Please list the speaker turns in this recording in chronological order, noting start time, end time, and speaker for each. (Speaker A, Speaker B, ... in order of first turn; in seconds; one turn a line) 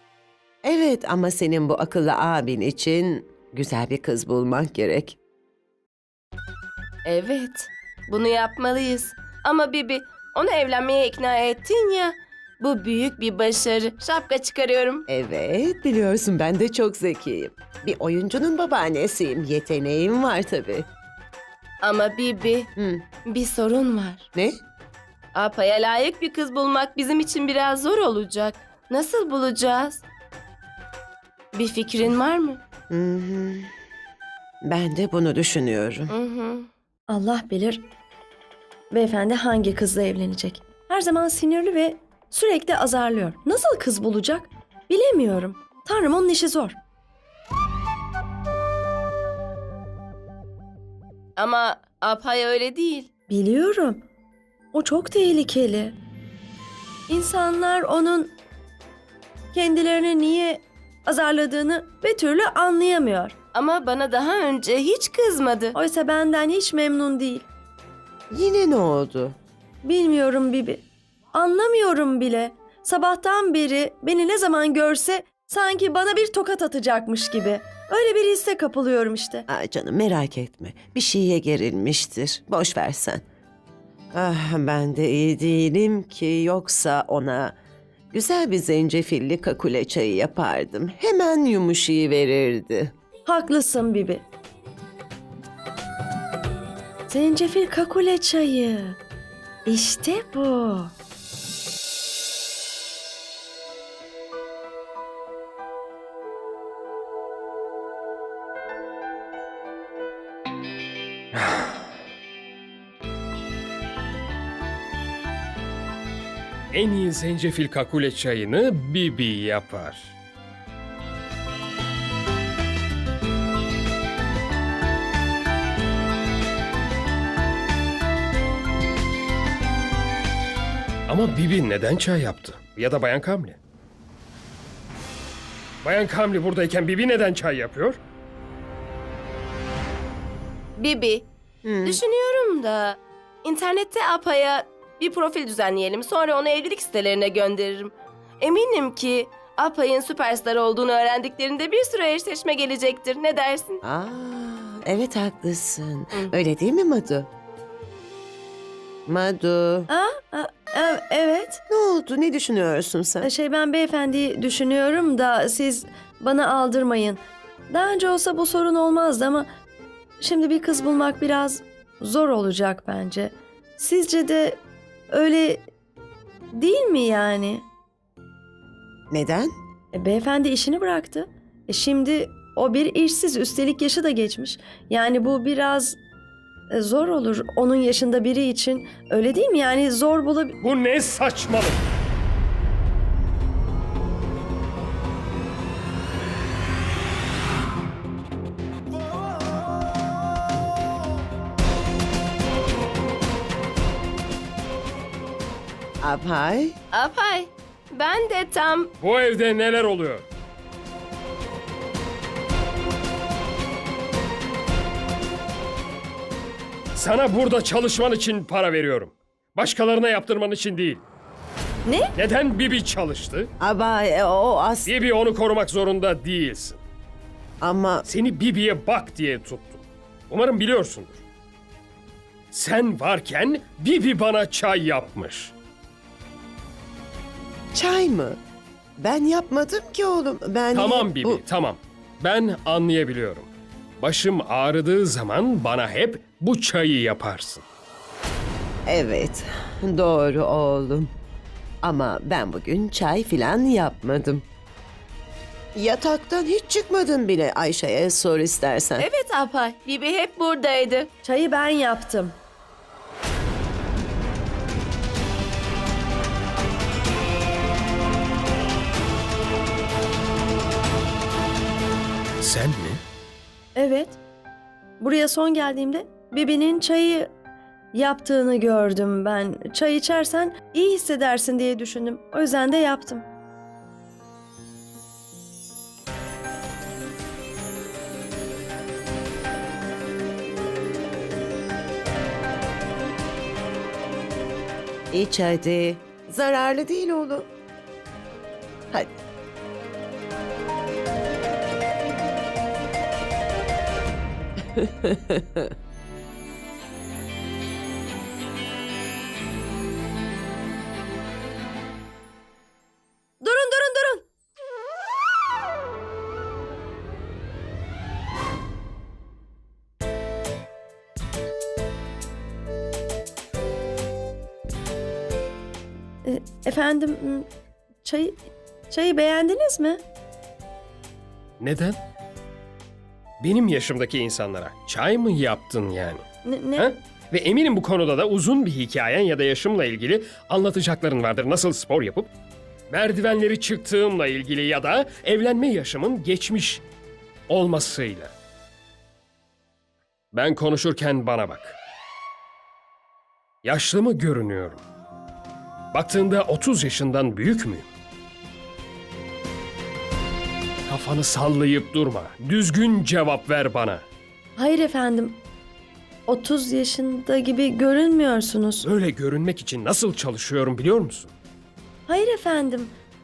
Speaker A: 0.6-5.2
Speaker B: 7.0-15.1
Speaker A: 15.1-20.9
Speaker B: 21.8-22.7
Speaker A: 22.8-23.0
Speaker B: 23.2-24.2
Speaker A: 24.3-24.6
Speaker B: 25.3-30.0
Speaker B: 31.5-32.6
Speaker A: 32.9-33.7
Speaker A: 34.6-36.1
Speaker B: 36.1-36.7
Speaker C: 37.1-37.8
Speaker C: 38.9-46.8
Speaker B: 51.4-53.1
Speaker C: 53.3-54.0
Speaker C: 54.7-56.0
Speaker C: 57.1-58.3
Speaker C: 59.5-63.3
Speaker B: 63.5-65.7
Speaker C: 65.7-67.5
Speaker A: 68.3-69.3
Speaker C: 69.8-79.5
Speaker A: 79.5-83.2
Speaker A: 84.1-87.5
Speaker A: 88.1-92.9
Speaker C: 93.2-94.2
Speaker C: 97.1-99.0
Speaker C: 99.7-100.9
Speaker D: 111.3-111.7
Speaker D: 116.7-120.1
Speaker D: 131.1-133.6
Speaker D: 135.8-138.0
Speaker B: 140.8-141.3
Speaker A: 141.6-142.0
Speaker B: 141.8-153.8
Speaker A: 153.8-157.3
Speaker A: 159.1-159.9
Speaker C: 159.9-161.6
Speaker A: 161.7-163.3
Speaker C: 163.2-169.5
Speaker C: 170.2-174.6
Speaker C: 175.1-175.7
Speaker C: 176.5-177.6
Speaker A: 179.1-179.5
Speaker C: 179.9-186.0
Speaker C: 186.7-190.6
Speaker D: 190.6-191.8
Speaker A: 206.0-206.8
Speaker B: 206.9-208.9
Speaker D: 209.0-210.2
Speaker D: 216.9-221.0
Speaker C: 221.8-222.1
Speaker D: 222.2-223.5
Speaker A: 223.6-224.9
Speaker D: 224.8-226.8
Speaker A: 227.6-228.1
Speaker D: 228.1-231.2
Speaker D: 232.5-235.5
Speaker A: 237.7-238.4
Speaker A: 239.0-241.4
Speaker D: 240.7-247.6
Speaker A: 248.8-251.1
Speaker A: 251.8-254.4
Speaker A: 255.7-259.1
Speaker B: 259.0-261.1
Speaker C: 261.2-262.4
Speaker D: 272.4-273.0
Speaker C: 273.8-274.2
Speaker C: 275.0-277.3
Speaker C: 277.9-283.2
Speaker A: 295.1-297.5
Speaker A: 298.9-299.2
Speaker A: 304.7-305.7
Speaker C: 313.4-314.2
Speaker C: 326.2-327.5
Speaker C: 328.0-330.0
Speaker D: 331.6-332.0
Speaker D: 333.4-336.2
Speaker C: 336.4-336.9
Speaker D: 336.8-342.3
Speaker D: 342.9-346.8
Speaker D: 347.5-348.3
Speaker D: 350.3-351.8
Speaker D: 353.6-354.8
Speaker D: 355.9-357.9
Speaker D: 360.9-364.0
Speaker C: 364.6-365.4
Speaker C: 366.3-368.9
Speaker D: 368.8-371.3
Speaker C: 372.1-372.9